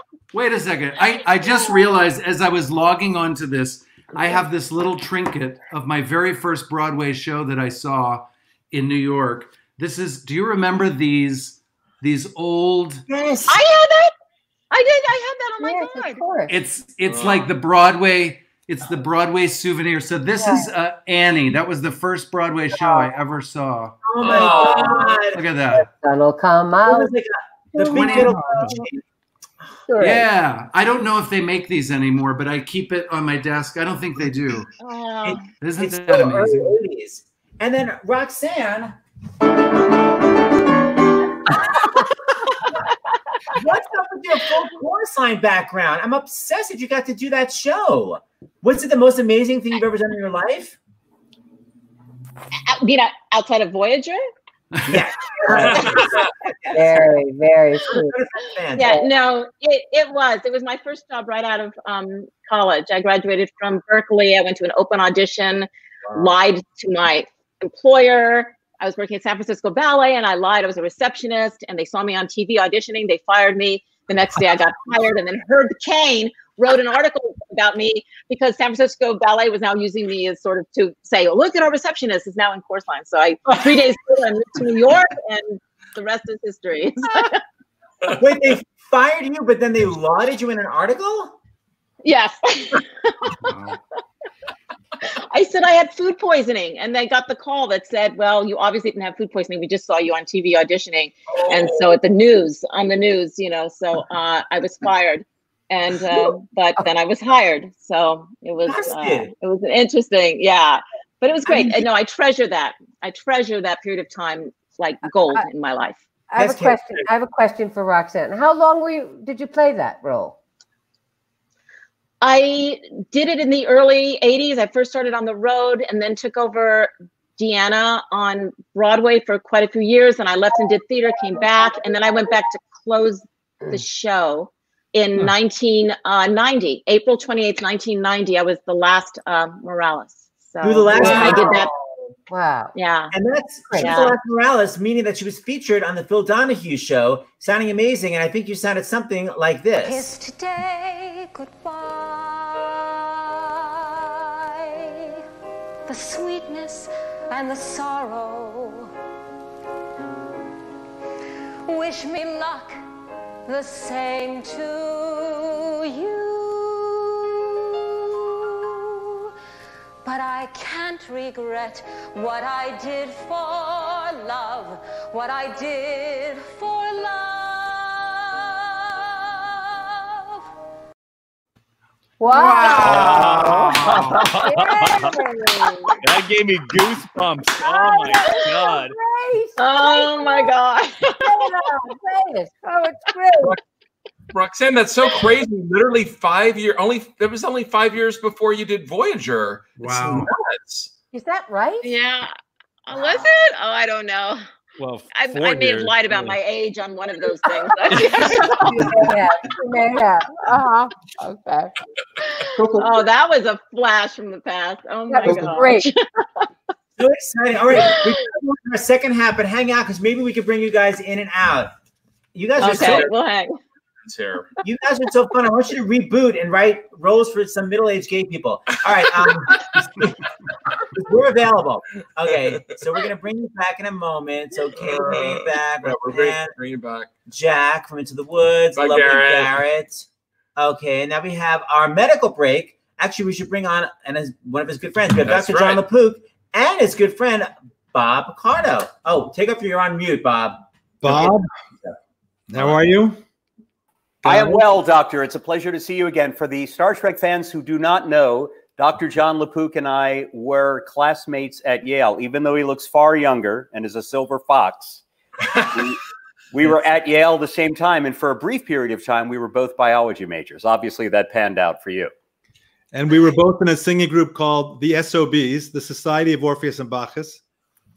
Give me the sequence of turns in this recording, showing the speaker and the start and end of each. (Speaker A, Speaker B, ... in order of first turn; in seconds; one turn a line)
Speaker A: 0.3-13.0
Speaker B: 13.1-13.6
Speaker C: 13.5-14.1
Speaker C: 14.7-16.2
Speaker D: 15.6-16.5
Speaker A: 16.5-23.9
Speaker E: 17.1-17.5
Speaker D: 20.4-20.7
Speaker B: 24.0-25.4
Speaker E: 24.2-25.2
Speaker A: 25.3-25.9
Speaker D: 26.0-27.1
Speaker B: 26.9-29.0
Speaker D: 27.8-28.7
Speaker A: 27.9-28.8
Speaker D: 29.9-30.3
Speaker A: 30.0-34.7
Speaker C: 34.8-35.5
Speaker B: 35.2-39.0
Speaker A: 35.6-36.8
Speaker B: 43.5-50.8
Speaker C: 52.7-54.2
Speaker B: 54.9-57.0
Speaker C: 55.5-56.2
Speaker D: 56.7-58.1
Speaker B: 57.9-59.0
Speaker C: 58.7-87.4
Speaker B: 88.1-91.3
Speaker C: 92.0-93.4
Speaker A: 93.5-93.8
Speaker C: 95.3-116.0
Speaker B: 108.7-109.3
Speaker B: 111.5-111.8
Speaker D: 116.3-120.3
Speaker B: 116.4-117.1
Speaker C: 122.2-141.7
Speaker B: 140.6-141.7
Speaker D: 140.9-141.6
Speaker D: 142.3-142.7
Speaker C: 142.7-143.1
Speaker B: 143.1-150.1
Speaker D: 143.7-144.0
Speaker C: 143.8-144.2
Speaker F: 149.8-155.2
Speaker F: 155.9-158.9
Speaker F: 161.7-162.8
Speaker F: 163.5-169.3
Speaker F: 170.0-180.4
Speaker D: 182.2-185.9
Speaker A: 182.3-184.1
Speaker G: 182.8-185.2
Speaker G: 186.0-188.9
Speaker D: 187.6-190.5
Speaker C: 189.6-191.4
Speaker D: 191.2-193.6
Speaker E: 194.3-200.9
Speaker A: 199.8-200.3
Speaker D: 201.1-201.9
Speaker C: 201.8-202.3
Speaker C: 202.9-204.4
Speaker G: 204.8-206.3
Speaker C: 205.1-208.9
Speaker D: 208.3-210.4
Speaker F: 210.4-211.7
Speaker C: 212.2-216.4
Speaker D: 215.1-215.9
Speaker B: 217.0-221.7
Speaker C: 217.7-218.2
Speaker B: 222.3-223.1
Speaker C: 222.6-223.5
Speaker E: 222.8-223.1
Speaker E: 224.0-224.5
Speaker B: 224.6-230.2
Speaker B: 230.8-236.5
Speaker E: 234.8-237.1
Speaker B: 237.3-251.3
Speaker E: 238.8-239.6
Speaker E: 245.2-245.8
Speaker H: 251.0-251.5
Speaker H: 252.5-253.2
Speaker I: 254.2-265.0
Speaker I: 265.7-266.0
Speaker I: 266.5-272.1
Speaker H: 272.9-277.4